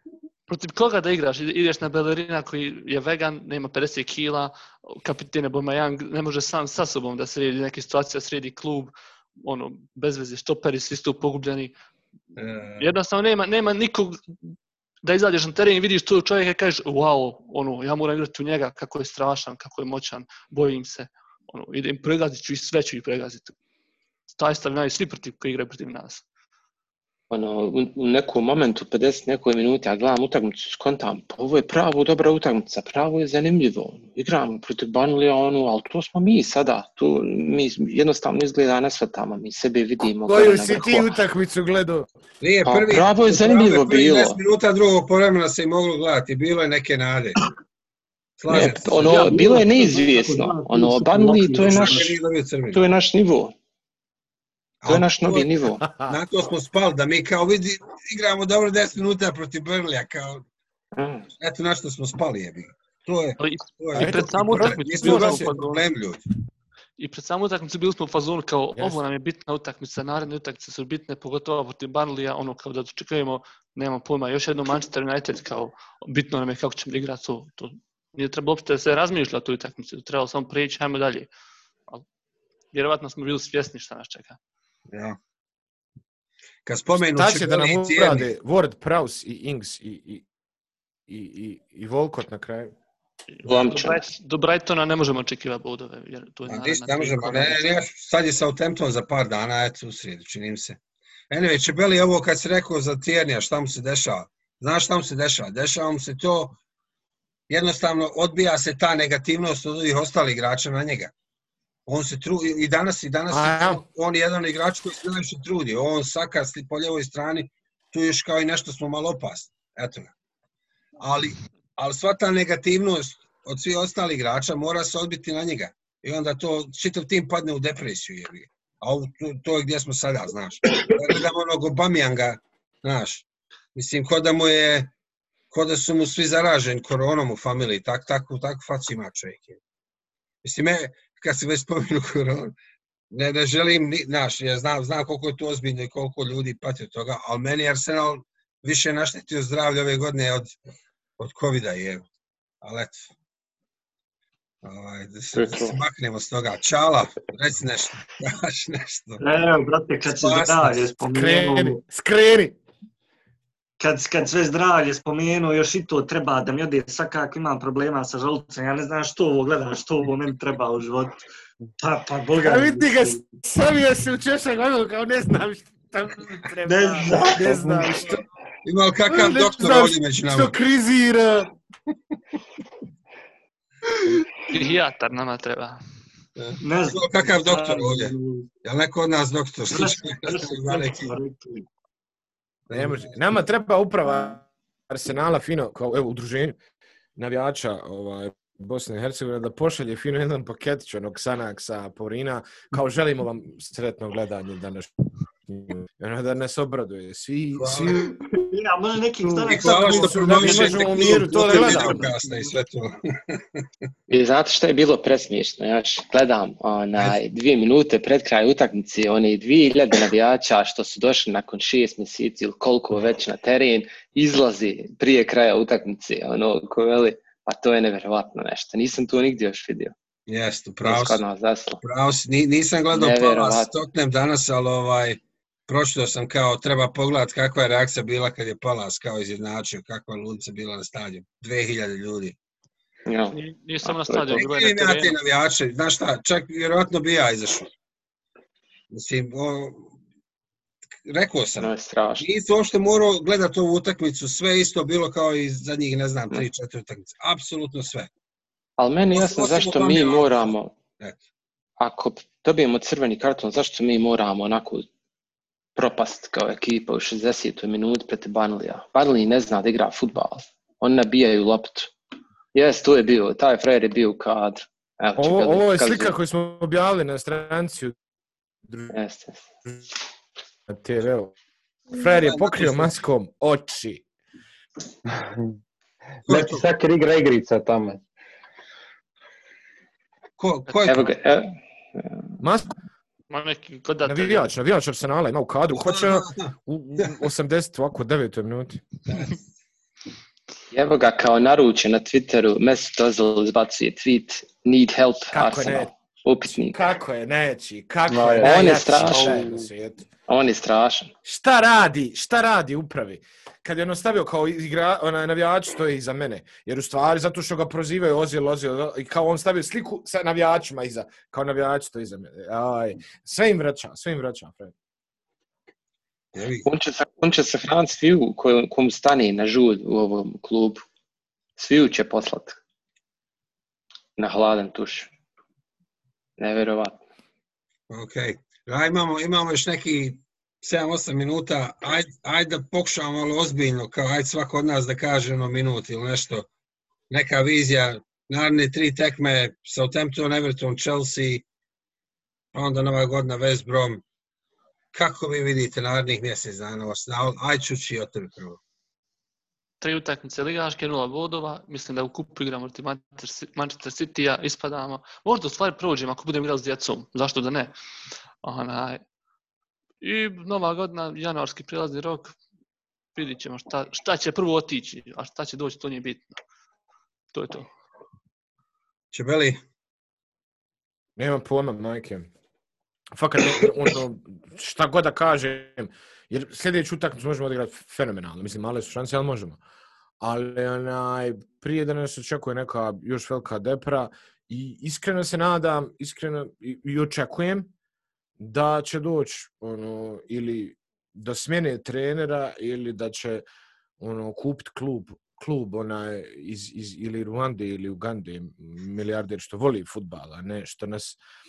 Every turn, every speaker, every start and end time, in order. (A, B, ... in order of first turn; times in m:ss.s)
0:00.5-0:11.7 A
0:12.4-0:12.9 B
0:12.8-0:14.3 A
0:15.0-0:23.5 A
0:24.3-0:26.2 A
0:27.3-0:41.1 C
0:40.2-0:42.1 D
0:42.4-0:47.4 B
0:42.6-0:44.4 C
0:48.4-0:49.3 B
0:48.5-0:52.1 C
0:49.0-0:52.2 E
0:51.5-0:52.8 B
0:52.7-0:53.5 C
0:54.8-1:00.4 B
0:54.8-0:55.8 C
1:00.9-1:01.2 C
1:01.4-1:06.2 B
1:03.4-1:05.8 A
1:04.0-1:05.5 D
1:07.0-1:21.3 A
1:08.8-1:09.0 D
1:22.7-1:24.4 A
1:24.9-1:25.2 B
1:26.6-1:28.3 B
1:27.0-1:30.2 D
1:31.1-1:32.7 D
1:33.3-1:37.8 A
1:33.4-1:34.1 C
1:36.5-1:40.8 B
1:41.3-1:46.6 B
1:47.5-1:51.1 B
1:51.9-2:00.1 B
1:53.3-1:53.8 D
2:01.0-2:14.9 B
2:15.5-2:19.6 B
2:20.4-2:22.5 B
2:23.1-2:30.6 B
2:31.2-2:32.0 B
2:32.6-2:33.1 B
2:34.6-2:39.2 B
2:35.3-2:35.8 C
2:39.2-2:41.8 E
2:40.1-2:40.8 B
2:41.0-2:42.6 D
2:43.8-2:51.2 E
2:51.8-2:53.2 E
2:52.4-2:58.2 D
2:56.6-2:57.8 E
2:58.6-3:00.5 B
2:59.1-3:01.5 D
3:04.5-3:05.8 A
3:06.4-3:11.1 B
3:06.6-3:08.5 E
3:09.7-3:11.6 E
3:12.7-3:13.2 B
3:12.7-3:16.6 D
3:17.2-3:24.9 D
3:25.4-3:28.1 D
3:27.6-3:28.1 B
3:28.0-3:32.5 E
3:29.4-3:33.6 B
3:29.5-3:32.1 D
3:34.1-3:49.9 C
3:50.3-3:51.2 B
3:50.8-3:51.8 C
3:51.8-4:02.3 B
3:52.9-3:53.7 C
4:03.0-4:04.4 C
4:03.3-4:05.2 A
4:04.3-4:07.7 B
4:08.9-4:09.9 B
4:11.0-4:18.1 B
4:11.6-4:12.3 C
4:18.8-4:20.7 C
4:19.1-4:21.2 B
4:21.8-4:24.8 C
4:25.8-4:31.9 C
4:32.5-4:36.2 C
4:35.2-4:37.9 D
4:38.7-4:38.9 D
4:38.9-4:39.5 C
4:40.7-4:41.4 D
4:41.9-4:44.0 D
4:42.1-4:42.9 B
4:45.1-4:45.4 F
4:46.2-4:46.6 B
4:46.3-4:48.0 F
4:50.4-4:51.1 B
4:50.8-4:52.2 C
4:52.4-4:52.7 D
4:53.3-4:54.5 A
4:54.0-4:58.8 D
4:55.7-4:56.5 B
4:59.1-4:59.4 B
5:00.7-5:06.8 C
5:05.3-5:05.9 D
5:06.4-5:10.0 D
5:08.1-5:09.7 F
5:08.4-5:09.4 C
5:10.3-5:11.1 C
5:11.2-5:24.7 D
5:26.3-5:26.7 B
5:26.6-5:30.8 C
5:31.6-5:32.6 C
5:34.2-5:35.1 C
5:36.4-5:37.0 C
5:37.9-5:46.5 B
5:47.1-5:51.4 B
5:52.5-5:54.0 B
5:54.9-5:58.6 B
5:59.8-6:07.7 A
6:08.4-6:09.0 A
6:10.0-6:12.4 A
6:13.1-6:16.4 A
6:17.3-6:17.7 A
6:19.1-6:19.6 B
6:21.2-6:22.3 D
6:23.1-6:29.6 D
6:30.2-6:37.7 D
6:38.4-6:43.4 D
6:44.0-6:51.2 D